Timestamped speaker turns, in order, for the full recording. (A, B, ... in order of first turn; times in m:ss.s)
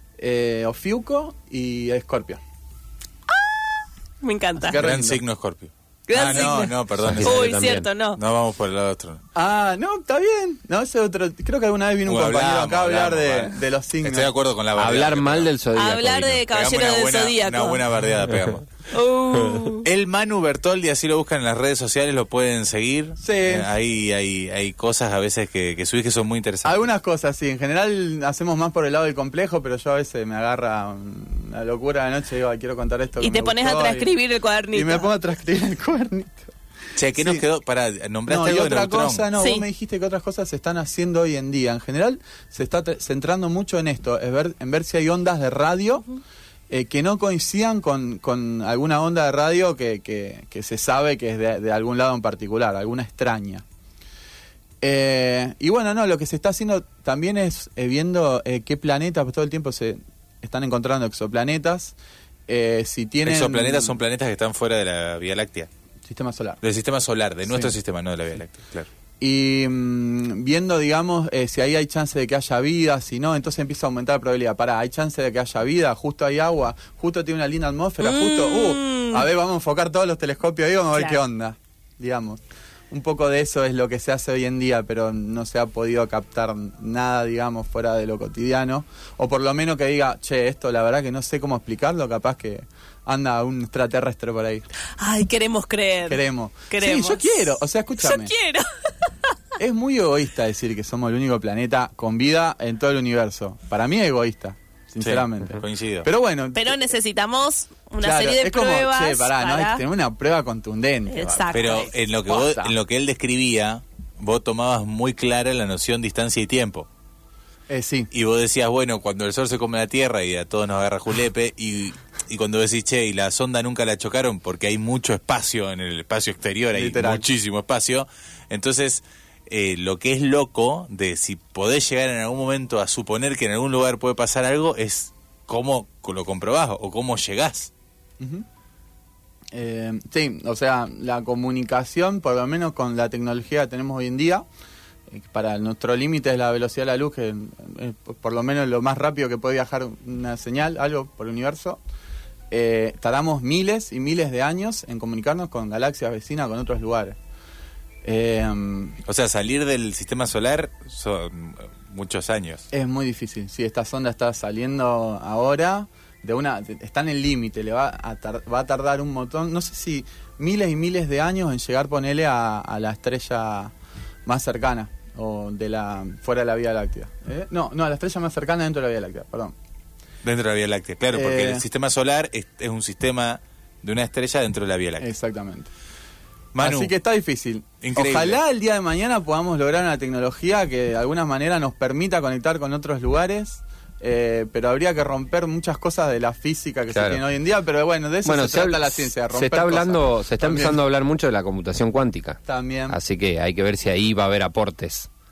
0:00.2-0:02.4 A
0:03.3-0:04.8 B
0:04.6-0:05.2 A
0:04.7-0:07.4 C
0:06.1-0:08.2 B
0:06.2-0:06.7 A
0:07.0-0:07.9 D
0:08.2-0:09.2 C
0:09.4-0:14.3 A
0:12.1-0:15.5 C
0:14.8-0:16.4 D
0:15.7-0:17.8 B
0:16.5-0:18.7 C
0:18.9-0:19.9 B
0:19.8-0:26.8 C
0:23.2-0:23.7 A
0:26.6-0:34.1 A
0:33.2-0:35.1 B
0:34.7-0:36.5 A
0:37.0-0:39.3 C
0:37.2-0:37.4 A
0:38.3-0:46.1 A
0:39.4-0:39.7 B
0:46.7-0:53.6 A
0:54.8-1:02.0 A
1:02.5-1:04.0 A
1:03.2-1:05.7 C
1:06.0-1:06.6 A
1:06.6-1:08.9 C
1:07.5-1:07.8 A
1:09.2-1:34.7 A
1:18.0-1:19.3 B
1:35.0-1:37.4 B
1:36.1-1:38.3 A
1:38.0-1:39.1 B
1:39.6-1:46.8 A
1:45.0-1:46.1 C
1:46.6-1:49.8 B
1:48.0-1:52.7 A
1:51.1-1:51.9 B
1:51.5-1:56.9 C
1:57.7-1:58.1 A
1:58.1-2:17.7 C
2:06.7-2:07.3 A
2:18.2-2:18.5 A
2:19.5-2:24.4 A
2:25.1-2:31.8 A
2:32.5-2:37.2 A
2:38.0-2:39.0 A
2:39.1-2:42.6 C
2:42.7-2:53.7 A
2:54.3-2:59.6 A
3:00.2-3:05.1 C
3:01.1-3:01.6 A
3:05.0-3:05.7 A
3:06.6-3:06.9 C
3:06.6-3:20.8 A
3:07.8-3:08.4 C
3:16.9-3:17.2 D
3:18.2-3:25.1 D
3:22.5-3:23.0 A